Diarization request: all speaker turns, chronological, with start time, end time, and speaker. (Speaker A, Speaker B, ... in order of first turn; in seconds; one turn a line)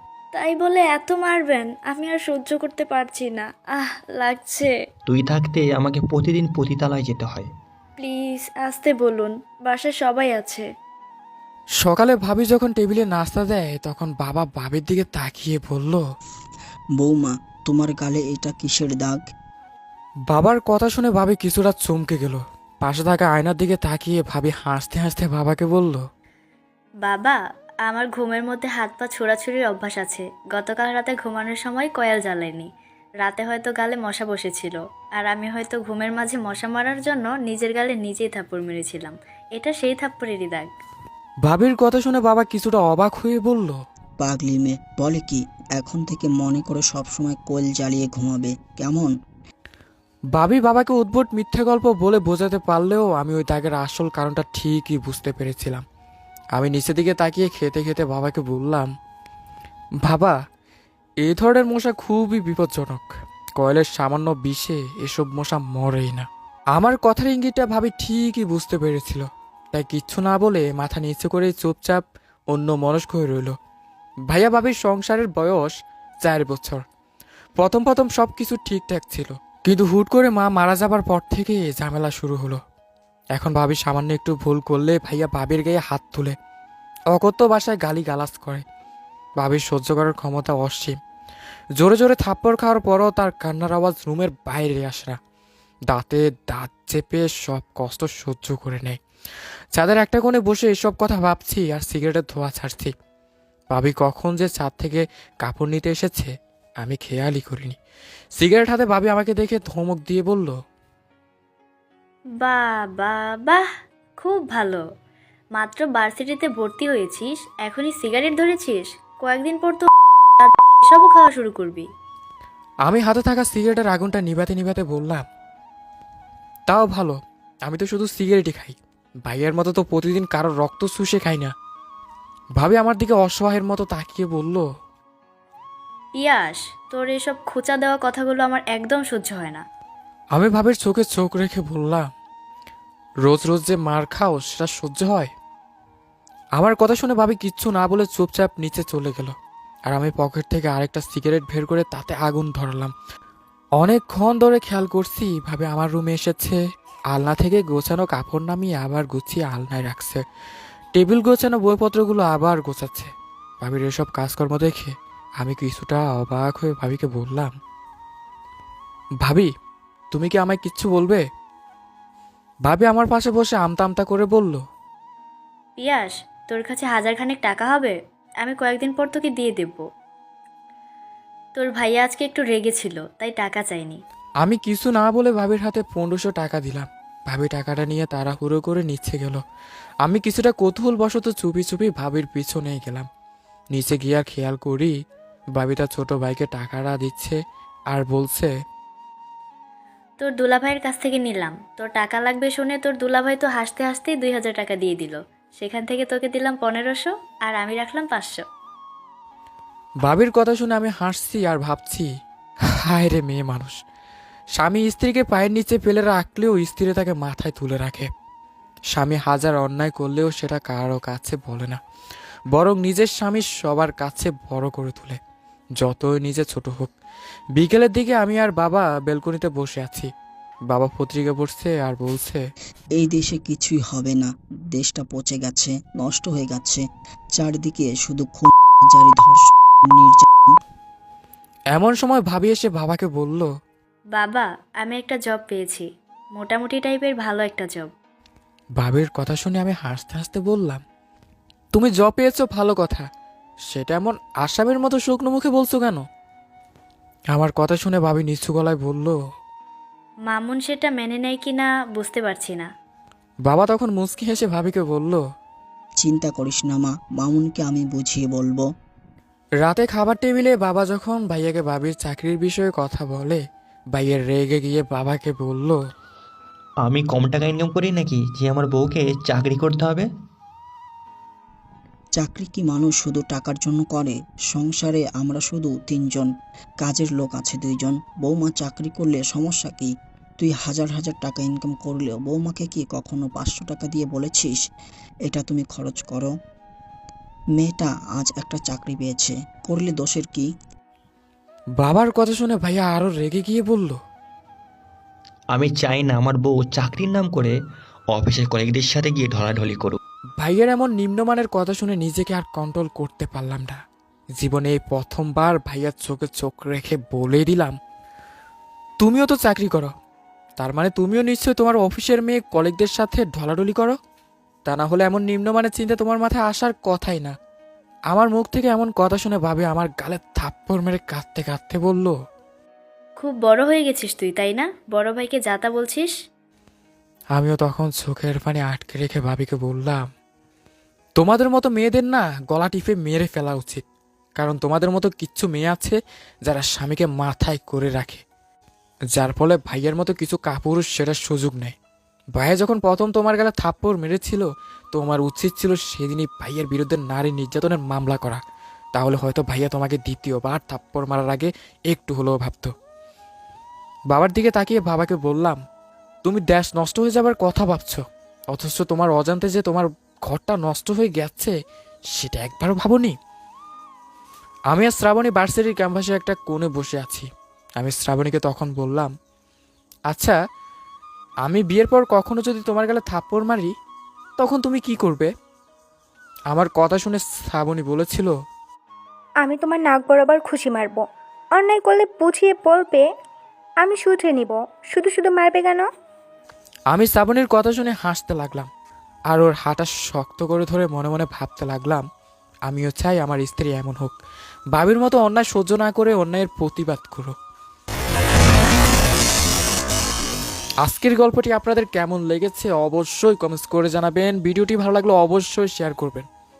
Speaker A: 0.3-4.7
Speaker B: 5.1-7.5
Speaker A: 8.0-10.7
Speaker C: 11.8-16.0
Speaker D: 17.0-19.2
Speaker C: 20.3-26.0
Speaker A: 27.0-32.7
Speaker A: 33.2-40.7
Speaker C: 41.5-43.8
Speaker D: 44.2-49.1
Speaker C: 50.4-55.8
Speaker C: 56.5-58.9
Speaker C: 60.0-60.4
Speaker C: 61.2-63.0
Speaker C: 63.6-73.5
Speaker C: 74.3-76.8
Speaker C: 77.6-82.6
Speaker C: 83.3-86.3
Speaker C: 87.1-88.6
Speaker C: 89.4-91.0
Speaker C: 91.8-95.2
Speaker C: 95.9-99.0
Speaker C: 99.7-102.9
Speaker C: 103.7-106.3
Speaker C: 106.8-107.8
Speaker C: 108.4-110.5
Speaker A: 112.4-113.6
Speaker A: 114.2-114.8
Speaker A: 115.6-121.9
Speaker C: 122.9-125.2
Speaker C: 126.7-131.5
Speaker C: 132.6-134.7
Speaker A: 136.2-139.6
Speaker C: 140.3-142.1
Speaker C: 143.3-145.3
Speaker C: 146.6-149.3
Speaker C: 149.9-152.9
Speaker C: 153.8-156.6
Speaker C: 157.1-160.2
Speaker C: 161.0-167.6
Speaker C: 169.2-169.5
Speaker C: 170.1-171.2
Speaker C: 172.7-174.6
Speaker A: 175.8-179.8
Speaker A: 181.6-184.0
Speaker C: 184.4-189.4
Speaker C: 190.0-193.1
Speaker C: 193.7-194.9
Speaker C: 195.6-197.4
Speaker C: 197.9-198.5
Speaker A: 200.2-208.4
Speaker C: 210.1-212.1
Speaker C: 212.8-213.8
Speaker C: 214.6-218.1
Speaker C: 218.9-221.8
Speaker C: 222.5-225.2
Speaker C: 225.8-226.9
Speaker C: 227.6-230.1
Speaker C: 230.7-232.4
Speaker D: 233.0-236.8
Speaker D: 237.3-240.5
Speaker C: 241.7-243.5
Speaker A: 244.2-247.9
Speaker C: 248.8-250.8
Speaker C: 251.7-253.1
Speaker C: 253.7-256.0
Speaker C: 257.3-259.1
Speaker A: 260.3-262.7
Speaker C: 263.4-265.2
Speaker D: 266.0-268.6
Speaker C: 269.6-273.4
Speaker C: 273.9-275.8
Speaker B: 276.8-280.1
Speaker D: 282.2-286.3
Speaker D: 286.8-294.6
Speaker D: 295.3-296.3
Speaker D: 297.6-300.5
Speaker C: 301.8-304.0
Speaker B: 305.5-307.5
Speaker B: 308.1-310.0
Speaker C: 310.4-313.8
Speaker C: 314.4-317.8
Speaker C: 319.0-319.9
Speaker C: 320.6-324.0
Speaker C: 324.6-327.3
Speaker C: 328.1-332.1
Speaker A: 333.2-336.1
Speaker C: 337.3-340.1
Speaker C: 341.2-343.8
Speaker C: 344.4-348.2
Speaker C: 349.1-351.7
Speaker C: 352.4-358.4
Speaker C: 358.9-362.7
Speaker C: 364.1-365.6
Speaker C: 366.2-371.5
Speaker C: 372.1-373.1
Speaker C: 374.7-377.3
Speaker C: 377.8-379.1
Speaker C: 380.1-380.4
Speaker C: 381.4-383.7
Speaker C: 384.4-385.3
Speaker C: 386.5-388.3
Speaker E: 389.4-391.0
Speaker E: 391.6-393.1
Speaker E: 393.8-395.9
Speaker C: 396.9-398.7
Speaker C: 399.3-402.0
Speaker C: 402.7-404.1
Speaker C: 404.7-407.3
Speaker C: 410.8-416.3